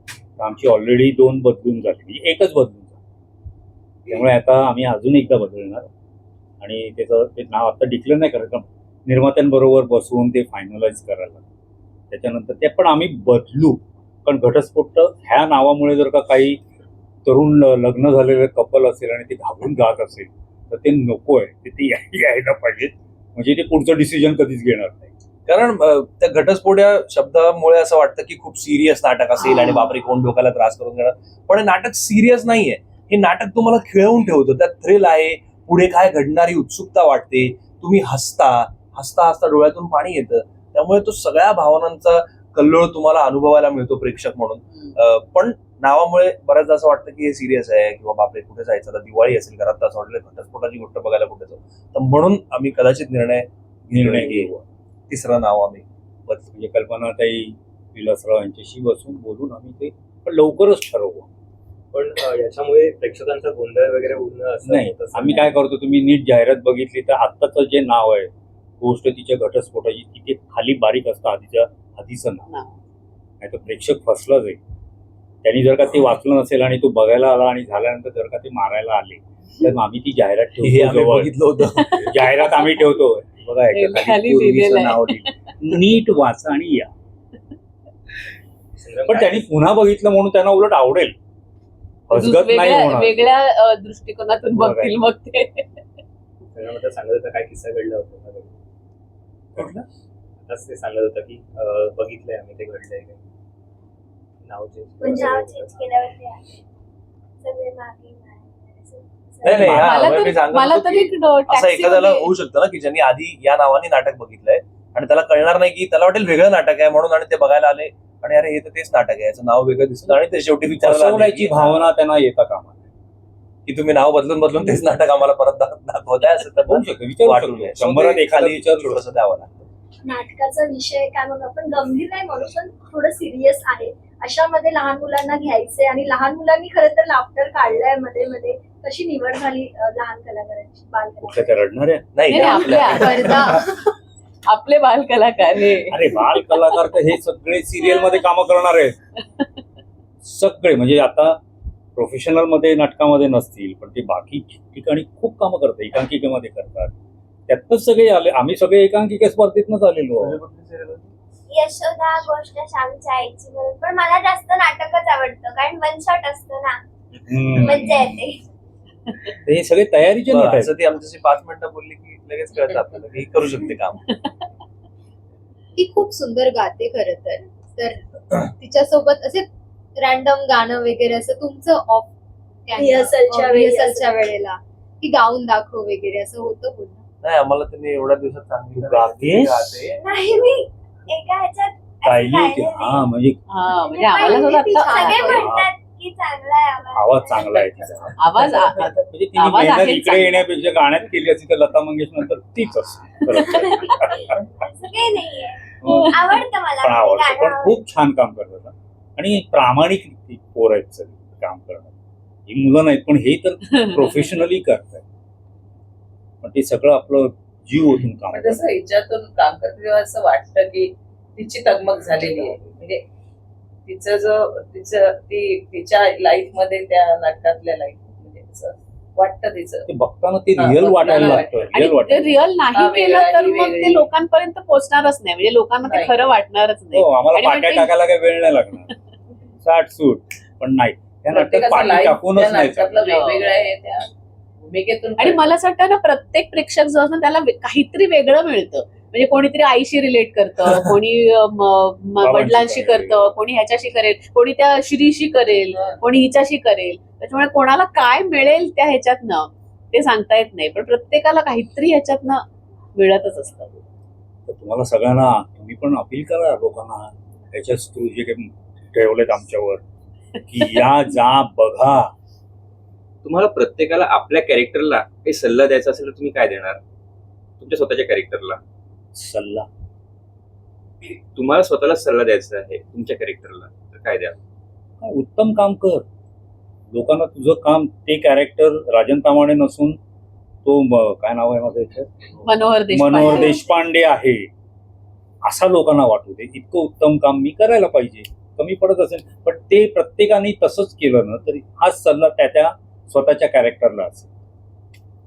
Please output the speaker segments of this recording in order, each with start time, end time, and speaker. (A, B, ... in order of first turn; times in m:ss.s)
0:00.4-0:03.0 A
0:04.1-0:05.9 A
0:06.6-0:11.4 A
0:12.1-0:16.6 A
0:17.2-0:25.1 A
0:25.5-0:54.5 B
0:29.5-0:29.8 C
0:53.9-0:54.6 A
0:55.1-0:56.4 B
0:56.3-1:01.3 A
1:01.9-1:05.5 D
1:04.6-1:12.5 A
1:13.4-1:14.6 A
1:15.4-1:26.9 A
1:20.6-1:22.4 B
1:23.7-1:25.3 C
1:28.8-1:29.5 D
1:29.0-1:31.2 A
1:32.1-1:33.2 A
1:32.1-1:35.7 C
1:34.6-1:34.9 A
1:36.5-1:38.5 D
1:40.4-1:43.2 D
1:44.4-1:45.7 D
1:45.0-1:46.6 E
1:47.4-1:49.7 E
1:49.4-2:01.9 B
1:49.4-1:49.9 A
1:49.6-1:52.3 C
2:00.0-2:02.8 A
2:03.6-2:09.7 B
2:06.6-2:09.0 A
2:10.0-2:21.6 F
2:21.2-2:23.0 A
2:22.1-2:23.6 B
2:22.3-2:23.8 C
2:22.9-2:23.4 G
2:24.5-2:26.4 C
2:25.9-2:29.0 A
2:30.2-2:31.4 A
2:32.0-2:36.9 A
2:37.5-2:40.4 A
2:40.2-2:41.1 B
2:41.5-2:46.8 E
2:47.3-2:48.0 A
2:47.5-2:48.4 E
2:49.4-2:50.7 A
2:50.3-2:54.1 B
2:55.8-3:02.1 G
3:02.6-3:07.0 G
3:02.8-3:04.3 F
3:07.2-3:10.0 B
3:08.7-3:09.8 A
3:10.0-3:13.1 E
3:12.0-3:13.4 A
3:13.5-3:15.5 C
3:14.0-3:15.4 G
3:14.0-3:14.7 F
3:14.1-3:17.8 E
3:15.3-3:15.7 A
3:16.9-3:24.4 A
3:18.2-3:20.5 C
3:24.6-3:27.8 E
3:25.8-3:31.9 A
3:25.8-3:26.1 C
3:32.5-3:35.0 A
3:36.4-3:38.6 A
3:38.3-3:43.0 H
3:43.8-3:49.9 H
3:49.9-3:52.3 A
3:50.6-3:51.7 H
3:51.7-3:57.9 C
3:52.7-3:54.1 H
3:55.8-3:56.3 H
3:56.9-3:58.9 A
3:59.6-4:03.2 A
4:01.3-4:04.1 H
4:03.0-4:03.5 C
4:04.6-4:05.5 H
4:05.2-4:23.8 C
4:12.2-4:13.4 A
4:24.5-4:29.8 A
4:30.5-4:32.1 A
4:33.2-4:36.8 I
4:37.6-4:38.6 I
4:39.1-4:39.7 A
4:41.0-4:44.3 I
4:45.0-4:46.0 A
4:46.9-4:50.0 A
4:50.6-4:52.2 A
4:52.4-4:53.6 C
4:52.9-4:54.5 A
4:55.4-5:04.3 A